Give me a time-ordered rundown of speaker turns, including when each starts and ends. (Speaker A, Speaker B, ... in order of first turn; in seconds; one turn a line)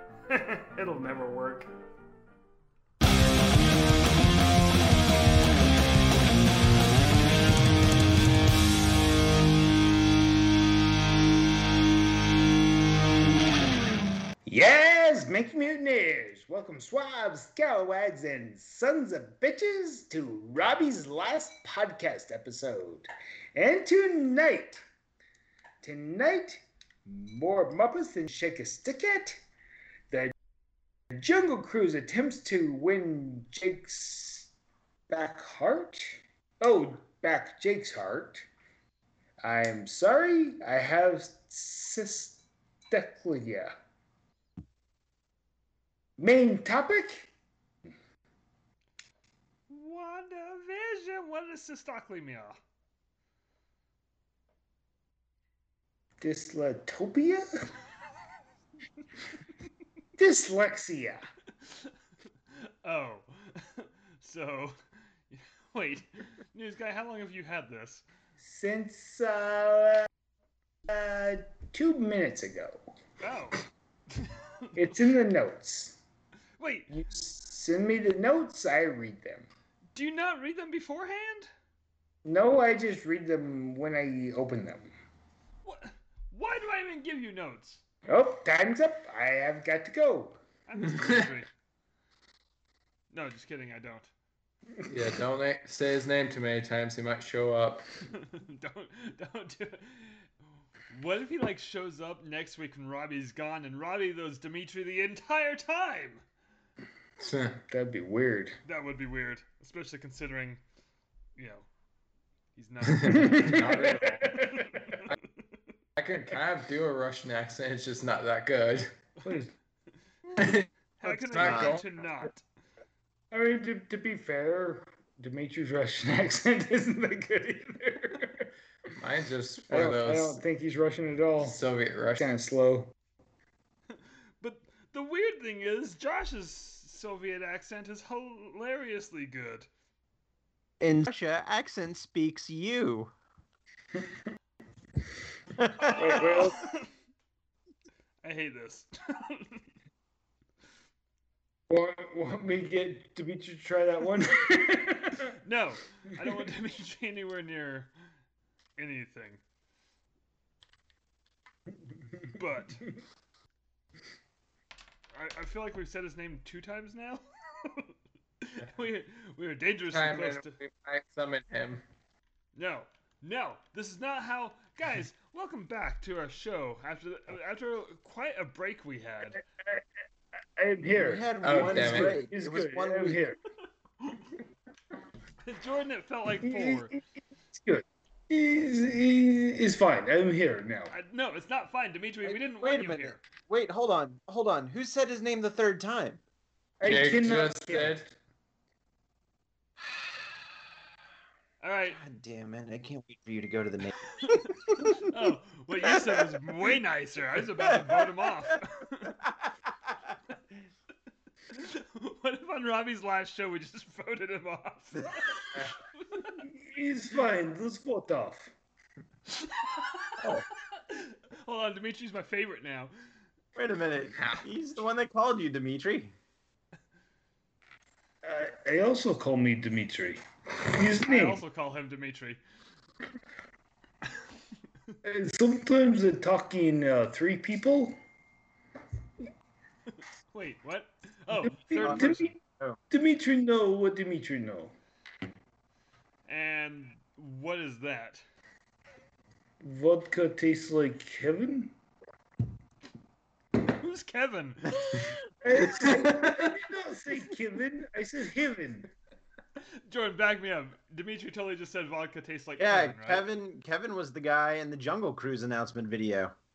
Speaker A: 0.3-1.7
Speaker B: 14.5-24.8
Speaker B: 25.8-29.4
Speaker B: 31.1-34.5
Speaker B: 35.1-38.5
Speaker B: 39.4-43.7
Speaker B: 46.2-47.3
Speaker A: 49.7-52.6
Speaker B: 56.2-57.5
Speaker B: 60.2-61.3
Speaker A: 61.6-61.9
Speaker A: 62.5-64.8
Speaker A: 65.3-68.0
Speaker B: 68.4-70.1
Speaker B: 70.9-72.8
Speaker A: 73.2-73.6
Speaker A: 74.1-74.8
Speaker B: 74.8-76.0
Speaker A: 76.6-76.9
Speaker B: 76.9-79.5
Speaker A: 79.9-81.5
Speaker B: 82.2-84.9
Speaker A: 85.6-87.8
Speaker B: 88.1-90.4
Speaker A: 90.7-91.5
Speaker C: 90.9-91.2
Speaker A: 93.1-94.1
Speaker C: 94.8-97.9
Speaker A: 98.1-100.3
Speaker A: 100.9-106.2
Speaker C: 107.2-107.6
Speaker B: 107.7-108.6
Speaker A: 108.7-110.6
Speaker A: 111.4-111.7
Speaker A: 112.6-115.5
Speaker C: 112.9-115.2
Speaker B: 113.1-115.0
Speaker C: 116.0-118.9
Speaker B: 119.2-119.5
Speaker C: 120.3-121.9
Speaker A: 121.0-122.5
Speaker D: 121.4-121.8
Speaker B: 123.3-128.5
Speaker C: 129.0-130.4
Speaker B: 129.7-131.6
Speaker C: 131.4-132.3
Speaker B: 132.2-132.9
Speaker A: 134.4-139.7
Speaker D: 140.8-143.1
Speaker D: 145.6-146.0
Speaker A: 145.8-146.9
Speaker B: 145.9-146.6
Speaker A: 148.2-149.7
Speaker B: 151.7-155.3
Speaker A: 155.4-157.9
Speaker A: 158.8-159.4
Speaker A: 162.3-162.9
Speaker A: 165.1-170.6
Speaker C: 169.9-171.8
Speaker A: 172.6-179.4
Speaker B: 179.3-179.8
Speaker B: 180.6-183.4
Speaker D: 181.0-183.2
Speaker C: 181.4-182.2
Speaker A: 185.4-187.0
Speaker B: 186.4-187.0
Speaker B: 187.5-190.9
Speaker A: 190.9-193.2
Speaker D: 192.2-196.2
Speaker B: 196.8-198.1
Speaker C: 196.8-198.0
Speaker D: 199.8-200.4
Speaker A: 201.6-202.0
Speaker D: 201.9-206.4
Speaker A: 204.2-209.2
Speaker D: 207.6-210.2
Speaker A: 211.5-216.4
Speaker B: 216.4-218.5
Speaker A: 219.3-222.9
Speaker D: 223.6-226.2
Speaker C: 224.2-224.4
Speaker B: 228.2-231.4
Speaker A: 231.0-232.4
Speaker B: 235.0-238.0
Speaker A: 240.3-242.3
Speaker B: 241.4-242.4
Speaker D: 241.8-242.8
Speaker B: 242.9-244.7
Speaker A: 246.3-248.2
Speaker B: 249.6-251.7
Speaker A: 253.6-255.3
Speaker B: 255.4-258.9
Speaker C: 255.7-256.4
Speaker A: 259.9-263.2
Speaker D: 262.6-266.3